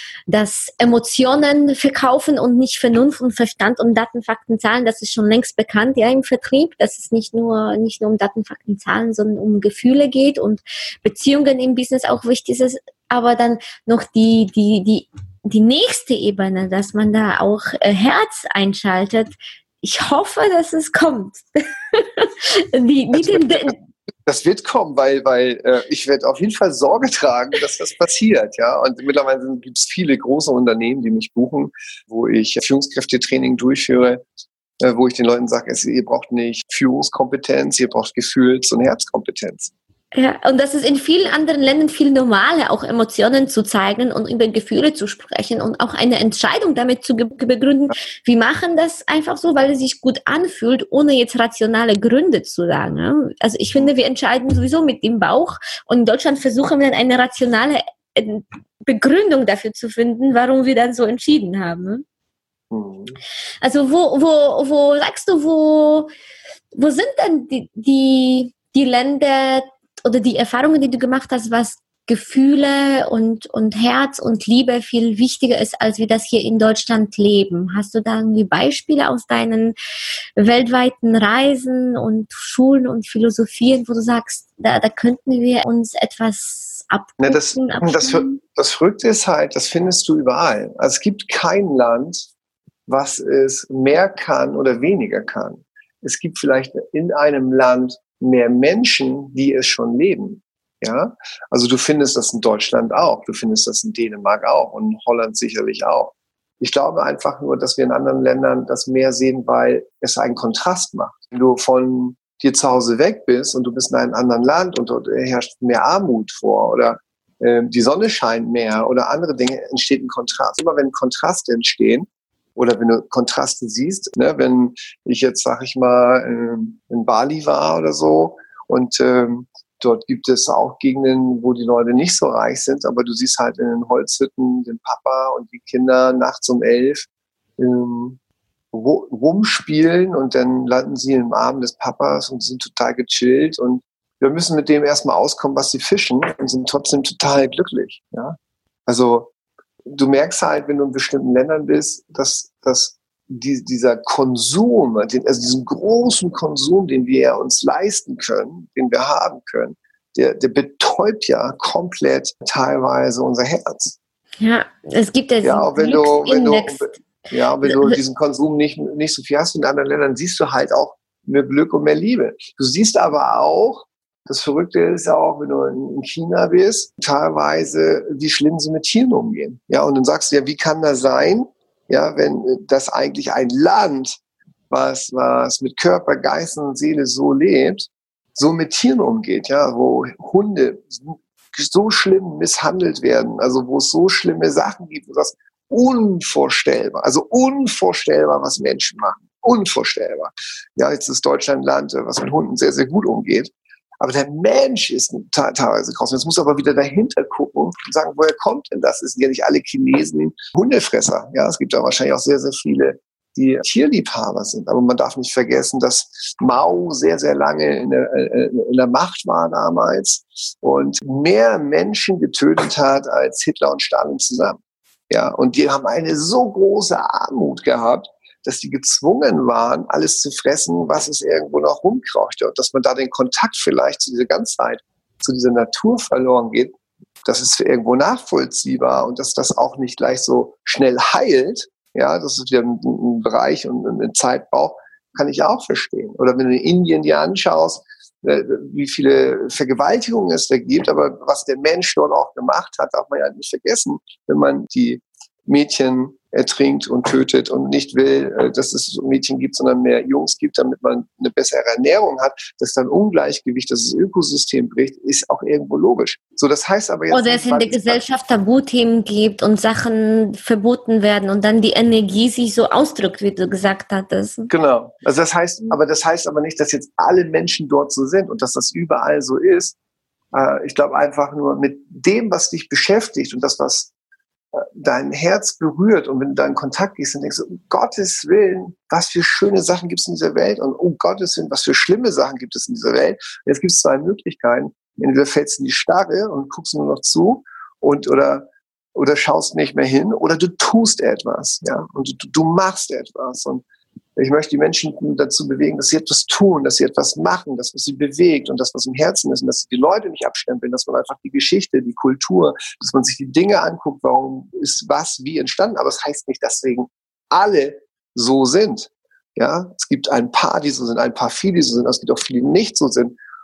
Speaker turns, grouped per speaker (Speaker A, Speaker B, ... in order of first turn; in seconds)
Speaker A: 0.3-23.8, 40.1-62.0, 63.6-66.1, 66.7-79.8, 80.4-88.4, 164.4-166.9, 167.6-168.0, 267.1-274.5
Speaker B: 23.1-34.2, 34.8-39.7, 62.7-63.2, 87.2-92.3, 92.9-138.2, 138.7-149.3, 149.8-164.0, 165.4-184.2, 184.7-224.6, 225.1-268.0, 274.5-279.8, 280.3-283.9, 284.5-303.6, 304.2-323.2